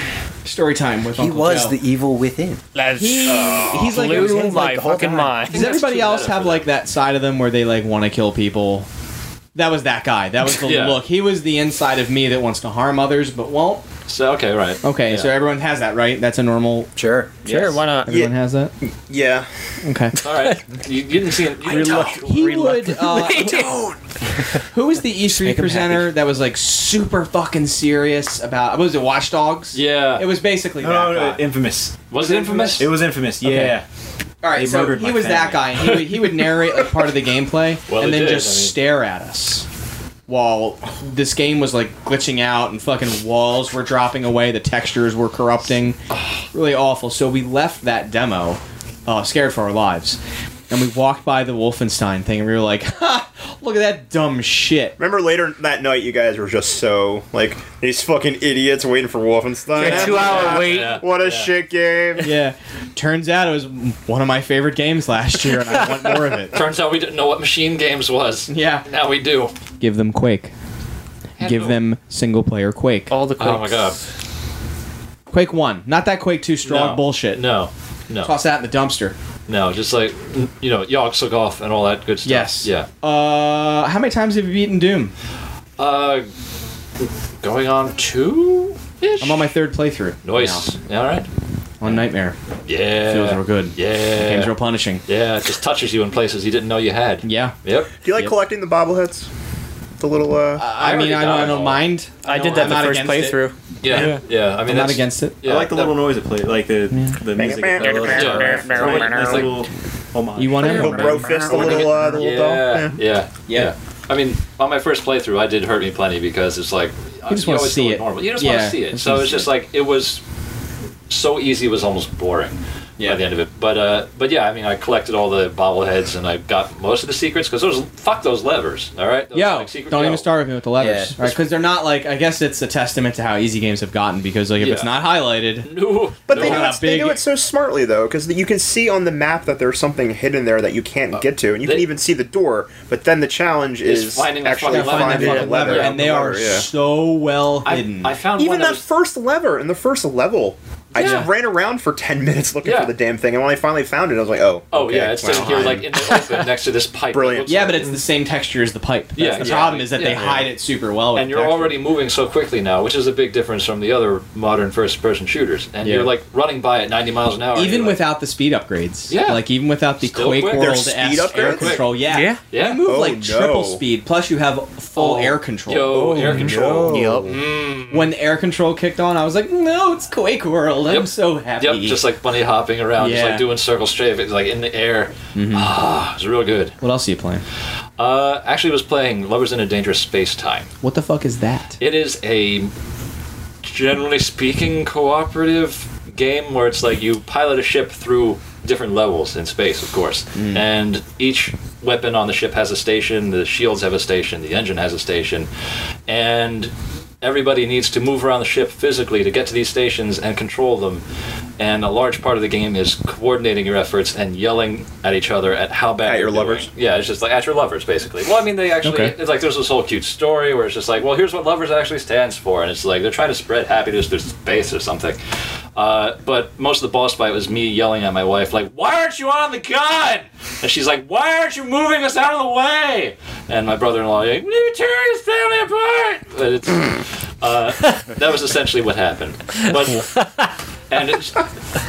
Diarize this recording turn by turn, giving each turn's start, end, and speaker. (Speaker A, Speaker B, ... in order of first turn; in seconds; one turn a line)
Speaker A: 0.5-1.8
Speaker B: 1.1-2.6
Speaker C: 2.7-5.7
Speaker A: 3.0-4.8
Speaker D: 3.3-4.2
Speaker B: 4.0-5.4
Speaker D: 5.4-6.7
Speaker A: 5.4-8.9
Speaker A: 9.6-13.8
Speaker D: 10.6-11.0
Speaker D: 14.1-15.3
Speaker A: 14.8-16.9
Speaker B: 17.0-17.4
Speaker C: 17.4-18.2
Speaker E: 17.4-17.8
Speaker A: 18.1-18.7
Speaker F: 18.1-18.3
Speaker F: 19.1-19.5
Speaker A: 19.8-20.2
Speaker D: 20.2-22.6
Speaker C: 21.7-23.9
Speaker B: 21.8-22.2
Speaker A: 21.8-23.8
Speaker A: 24.7-31.5
Speaker E: 25.4-26.0
Speaker D: 29.7-30.3
Speaker E: 30.8-33.9
Speaker D: 32.1-32.9
Speaker A: 33.4-33.8
Speaker A: 34.4-39.7
Speaker E: 34.5-35.8
Speaker D: 35.8-36.8
Speaker D: 37.9-38.8
Speaker A: 40.3-46.0
Speaker A: 46.5-50.2
Speaker A: 50.7-55.0
Speaker F: 55.0-62.4
Speaker C: 59.7-61.0
Speaker D: 59.8-61.5
Speaker A: 62.2-66.7
Speaker D: 66.5-69.5
Speaker A: 68.5-68.9
Speaker A: 69.8-70.5
Speaker D: 71.4-71.8
Speaker A: 71.4-73.1
Speaker C: 73.1-74.0
Speaker D: 73.4-74.0
Speaker A: 75.3-77.5
Speaker D: 76.6-78.3
Speaker A: 78.2-79.2
Speaker D: 79.5-82.9
Speaker A: 82.2-85.1
Speaker D: 85.8-86.3
Speaker D: 87.4-89.5
Speaker A: 89.2-90.7
Speaker D: 90.2-91.3
Speaker A: 91.8-92.4
Speaker D: 92.7-94.5
Speaker A: 93.0-95.0
Speaker D: 95.1-97.9
Speaker A: 97.2-97.6
Speaker F: 98.0-99.3
Speaker A: 98.1-98.3
Speaker F: 100.0-100.7
Speaker A: 100.6-103.4
Speaker D: 100.8-102.8
Speaker C: 102.2-104.2
Speaker D: 103.8-106.0
Speaker A: 104.6-105.6
Speaker E: 105.4-110.9
Speaker A: 106.9-107.2
Speaker F: 107.3-108.6
Speaker B: 107.8-109.0
Speaker C: 107.9-109.6
Speaker D: 108.0-109.4
Speaker A: 110.4-111.9
Speaker F: 110.6-113.0
Speaker C: 111.0-111.5
Speaker D: 111.5-120.2
Speaker A: 117.3-119.5
Speaker D: 121.1-130.3
Speaker A: 129.3-137.2
Speaker B: 130.8-131.4
Speaker D: 134.6-135.0
Speaker D: 135.6-136.7
Speaker F: 136.3-146.7
Speaker D: 141.1-141.9
Speaker D: 143.8-146.3
Speaker A: 144.7-148.2
Speaker D: 147.6-148.8
Speaker F: 148.4-155.9
Speaker D: 150.9-151.3
Speaker A: 151.0-151.3
Speaker D: 152.6-152.9
Speaker D: 154.7-157.8
Speaker A: 155.2-155.9
Speaker F: 157.1-157.7
Speaker A: 157.5-161.8
Speaker D: 159.2-160.6
Speaker D: 161.1-168.0
Speaker A: 165.8-166.1
Speaker A: 167.6-176.5
Speaker D: 169.1-169.4
Speaker D: 170.0-171.9
Speaker F: 170.6-171.8
Speaker C: 172.1-172.4
Speaker D: 172.5-172.9
Speaker F: 172.8-173.8
Speaker D: 174.9-178.1
Speaker C: 176.1-177.4
Speaker F: 176.3-177.4
Speaker A: 177.9-182.1
Speaker D: 180.9-186.8
Speaker A: 183.0-183.5
Speaker A: 185.3-185.8
Speaker A: 186.8-187.4
Speaker D: 188.0-190.7
Speaker A: 190.8-191.8
Speaker D: 191.8-192.7
Speaker D: 193.6-205.5
Speaker A: 200.3-200.6
Speaker D: 206.1-211.0
Speaker D: 211.6-225.2
Speaker F: 216.0-216.7
Speaker A: 218.8-219.1
Speaker D: 225.8-240.3
Speaker D: 240.9-241.4